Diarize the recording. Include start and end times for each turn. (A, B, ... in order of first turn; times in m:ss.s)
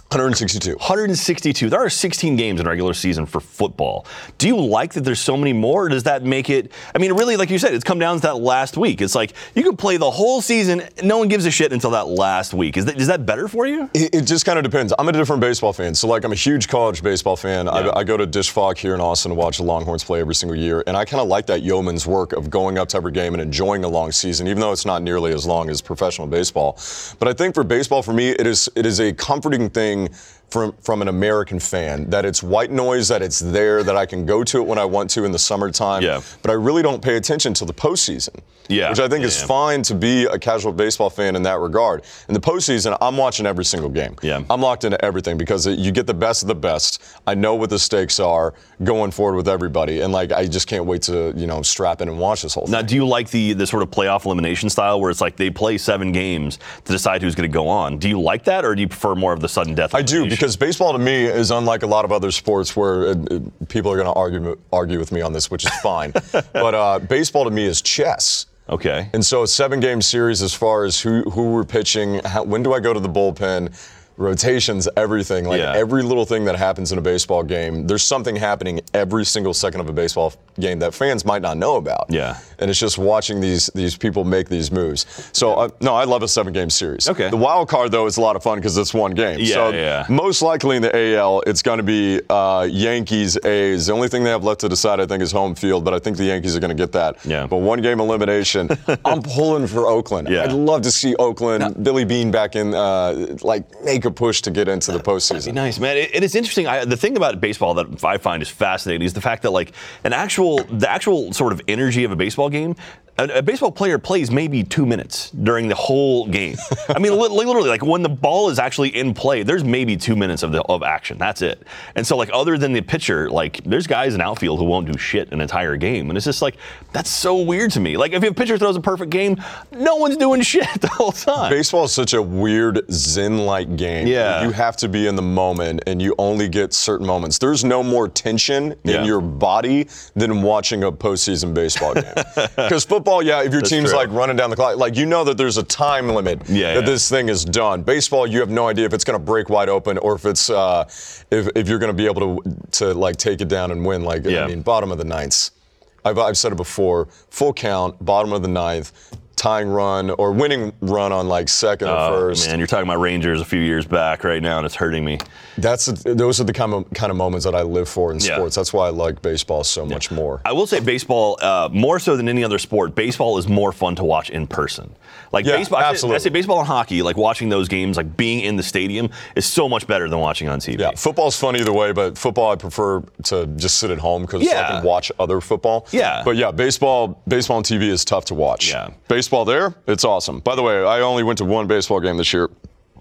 0:00.1-0:00.8 A
0:00.8-0:13.9 B
0:13.9-0:52.9 A
0:17.7-0:18.0 B
0:36.0-0:36.2 B
0:38.7-0:39.5 B
0:52.7-1:00.4 B
0:59.9-1:08.5 A
1:08.7-1:09.1 B
1:09.1-1:45.6 A
1:15.5-1:15.8 B
1:22.1-1:22.4 B
1:27.0-1:27.4 B
1:29.4-1:30.1 B
1:37.2-1:37.5 B
1:38.9-1:39.1 B
1:40.2-1:40.6 B
1:45.4-2:11.6 B
2:11.4-2:35.5 A
2:14.0-2:14.5 B
2:18.8-2:19.1 B
2:22.1-2:22.7 B
2:23.6-2:24.1 B
2:26.5-2:27.0 B
2:34.3-2:34.5 B
2:36.0-2:42.5 A
2:41.8-2:45.2 B
2:45.6-2:50.4 A
2:48.2-2:48.4 B
2:49.9-3:01.0 B
2:55.4-2:56.3 A
3:00.8-3:12.5 A
3:04.4-3:04.8 B
3:05.9-3:06.3 B
3:08.6-3:08.9 B